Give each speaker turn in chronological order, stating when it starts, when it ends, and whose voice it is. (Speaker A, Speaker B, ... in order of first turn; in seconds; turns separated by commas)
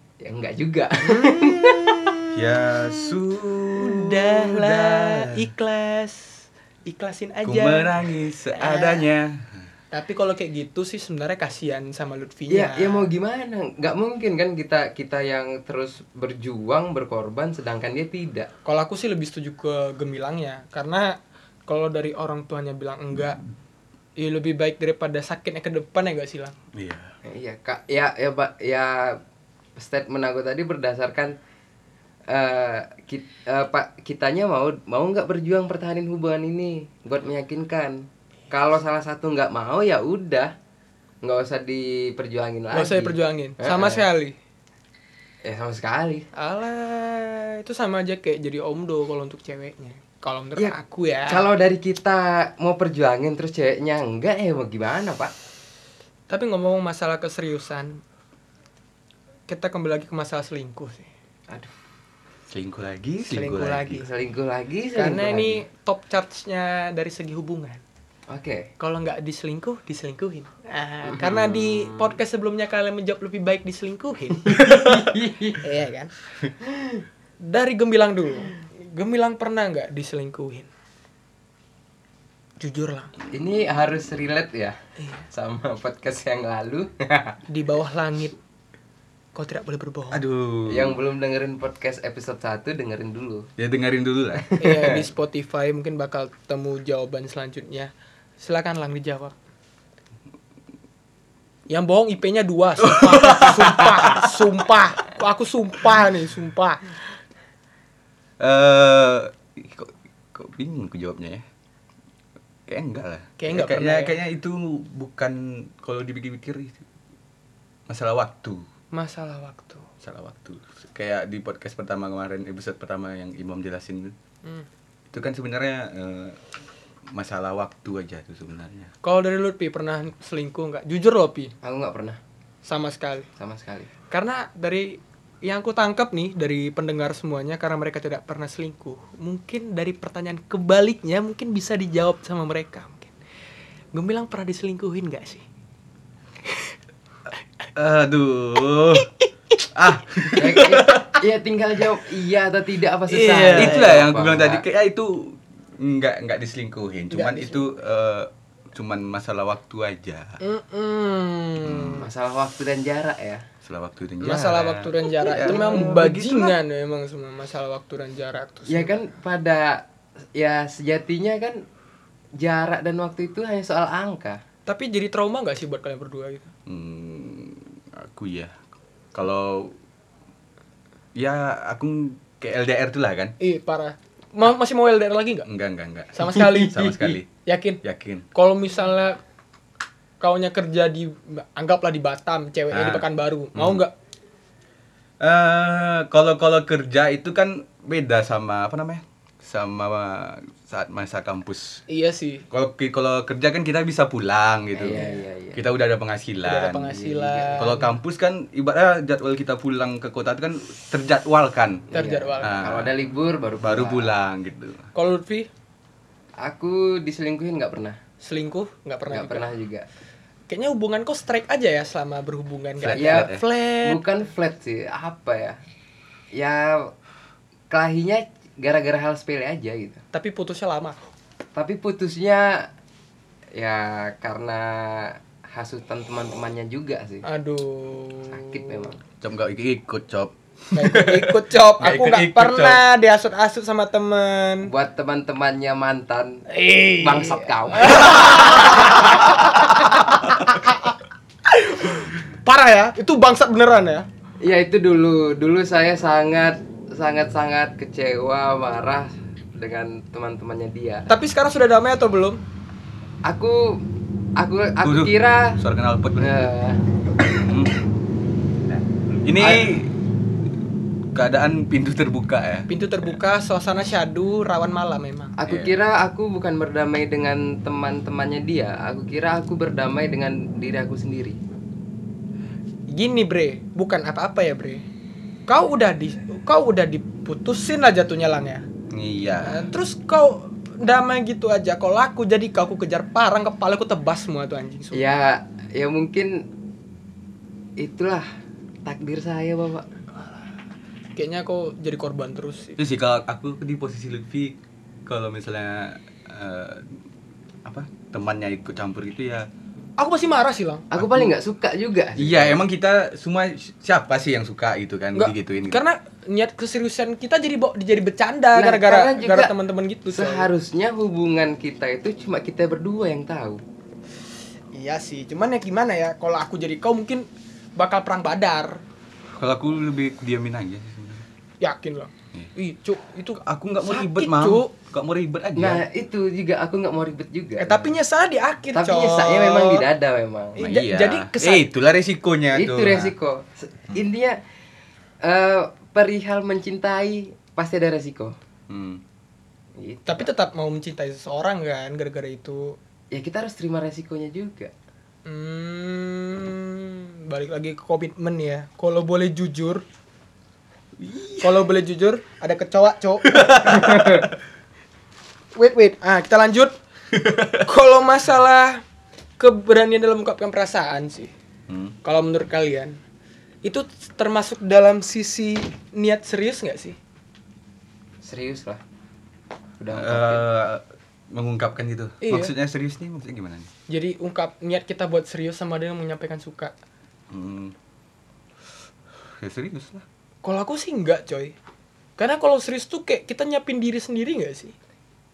Speaker A: 0.2-2.1, Speaker B: 1.1-3.0, Speaker C: 2.3-5.4, Speaker B: 3.7-7.9, Speaker C: 7.4-9.7, Speaker B: 8.5-9.0, Speaker B: 9.9-13.1, Speaker A: 12.5-18.5, Speaker B: 18.6-23.4, Speaker B: 24.2-26.5, Speaker C: 26.7-27.1, Speaker A: 27.2-29.2, Speaker A: 29.8-31.3, Speaker A: 32.3-40.5, Speaker A: 41.2-44.0, Speaker B: 42.7-44.3, Speaker A: 45.4-46.3, Speaker B: 46.3-51.5, Speaker A: 51.3-55.3, Speaker B: 56.3-58.0, Speaker B: 59.5-61.1, Speaker A: 61.5-61.7, Speaker C: 62.5-64.0, Speaker B: 63.2-64.1, Speaker A: 64.0-65.6, Speaker B: 64.9-67.8, Speaker A: 68.3-68.7, Speaker B: 68.8-75.0, Speaker A: 71.1-72.1, Speaker A: 74.5-75.6, Speaker B: 75.6-76.1, Speaker B: 77.4-80.7, Speaker B: 82.6-83.1, Speaker A: 83.3-84.8, Speaker B: 85.0-85.2, Speaker A: 85.3-87.4, Speaker B: 87.5-88.4, Speaker B: 89.3-90.2, Speaker C: 90.1-91.0, Speaker A: 90.7-93.5, Speaker C: 93.6-94.5, Speaker A: 94.4-95.0, Speaker B: 94.6-99.3, Speaker B: 101.7-106.8, Speaker C: 102.8-104.3, Speaker C: 108.4-111.4, Speaker C: 112.7-116.8, Speaker B: 113.4-114.1, Speaker C: 117.9-118.6, Speaker B: 118.9-119.9, Speaker C: 120.0-124.1, Speaker C: 125.1-126.4, Speaker C: 127.1-128.9, Speaker B: 129.0-131.5, Speaker A: 131.6-132.2, Speaker B: 132.6-133.3, Speaker A: 133.4-133.9, Speaker B: 134.1-143.1, Speaker B: 143.9-145.4, Speaker C: 147.8-149.1, Speaker C: 149.7-151.0, Speaker A: 150.3-154.6, Speaker B: 153.1-153.9, Speaker C: 153.2-160.4, Speaker B: 157.1-157.7, Speaker B: 160.4-162.0, Speaker C: 161.6-162.1, Speaker A: 161.8-163.4, Speaker C: 163.6-166.6, Speaker B: 164.2-168.9, Speaker A: 165.3-165.9, Speaker A: 168.7-169.8, Speaker A: 170.3-171.6, Speaker A: 172.4-174.4, Speaker B: 174.7-176.5, Speaker C: 176.7-178.6, Speaker C: 179.1-179.8, Speaker C: 181.1-183.3, Speaker B: 183.4-185.5, Speaker C: 185.4-187.3, Speaker B: 186.1-187.8, Speaker A: 186.2-187.2, Speaker C: 187.8-188.3, Speaker B: 188.3-189.2, Speaker B: 190.2-193.9, Speaker C: 192.7-193.8, Speaker C: 195.2-201.8, Speaker B: 201.9-202.4, Speaker C: 202.5-207.0, Speaker A: 204.7-205.6, Speaker B: 204.9-205.2, Speaker B: 206.4-207.9, Speaker A: 206.9-207.7, Speaker C: 207.6-211.9, Speaker A: 211.9-214.1, Speaker B: 211.9-212.6, Speaker C: 212.4-212.9, Speaker C: 213.6-214.9, Speaker B: 214.9-215.5, Speaker A: 216.4-218.0, Speaker B: 218.2-219.5, Speaker A: 219.1-219.8, Speaker B: 220.5-224.0, Speaker C: 222.8-223.4, Speaker A: 222.9-225.6, Speaker A: 226.3-226.9, Speaker A: 227.7-230.0, Speaker B: 230.1-231.0, Speaker A: 231.5-232.7, Speaker A: 233.5-237.2, Speaker B: 237.2-238.9, Speaker A: 238.3-239.0, Speaker C: 239.2-242.8, Speaker B: 240.7-244.7, Speaker A: 244.7-246.4, Speaker B: 246.5-250.9, Speaker A: 247.0-249.3, Speaker B: 251.5-254.1, Speaker A: 254.4-261.1, Speaker B: 261.1-262.4, Speaker A: 263.2-263.8, Speaker A: 264.4-265.6, Speaker C: 264.8-266.4, Speaker A: 266.2-266.8, Speaker C: 267.3-267.8, Speaker C: 269.2-270.0, Speaker A: 269.4-269.7, Speaker C: 271.1-272.7, Speaker B: 272.7-275.3, Speaker A: 275.4-281.4, Speaker C: 275.4-275.7, Speaker B: 282.9-284.8, Speaker B: 285.5-288.6, Speaker C: 288.9-289.7, Speaker B: 289.4-295.0, Speaker A: 294.9-296.4, Speaker A: 297.8-298.3, Speaker A: 298.8-299.9, Speaker B: 301.1-302.8, Speaker C: 302.8-306.9, Speaker C: 307.6-309.5, Speaker B: 310.0-310.8, Speaker A: 310.9-312.6, Speaker C: 310.9-311.3, Speaker C: 312.2-315.8, Speaker B: 315.1-320.5, Speaker A: 318.5-319.5, Speaker A: 320.1-323.6, Speaker B: 324.7-328.8, Speaker C: 329.3-331.2, Speaker B: 331.6-334.7, Speaker C: 333.4-335.8, Speaker A: 335.6-337.9, Speaker B: 337.6-339.9, Speaker A: 338.7-340.7, Speaker B: 340.6-341.6, Speaker C: 340.6-343.1, Speaker A: 342.5-344.4, Speaker A: 345.2-348.4, Speaker C: 348.7-349.0, Speaker A: 349.8-350.3, Speaker B: 350.1-352.8, Speaker A: 353.1-354.7, Speaker B: 355.2-359.8, Speaker C: 361.0-361.6, Speaker B: 361.4-364.1, Speaker C: 363.3-364.3, Speaker A: 363.7-364.2, Speaker B: 365.5-366.7, Speaker C: 367.2-367.5, Speaker B: 367.6-368.8, Speaker B: 369.4-371.3, Speaker C: 371.7-371.9, Speaker B: 372.0-373.0, Speaker B: 373.6-377.0, Speaker A: 378.2-378.8, Speaker A: 379.8-380.4, Speaker C: 379.9-383.7, Speaker B: 382.2-382.5, Speaker B: 383.9-386.7, Speaker C: 387.3-387.7, Speaker C: 389.2-390.0, Speaker B: 390.4-391.5, Speaker B: 392.2-394.7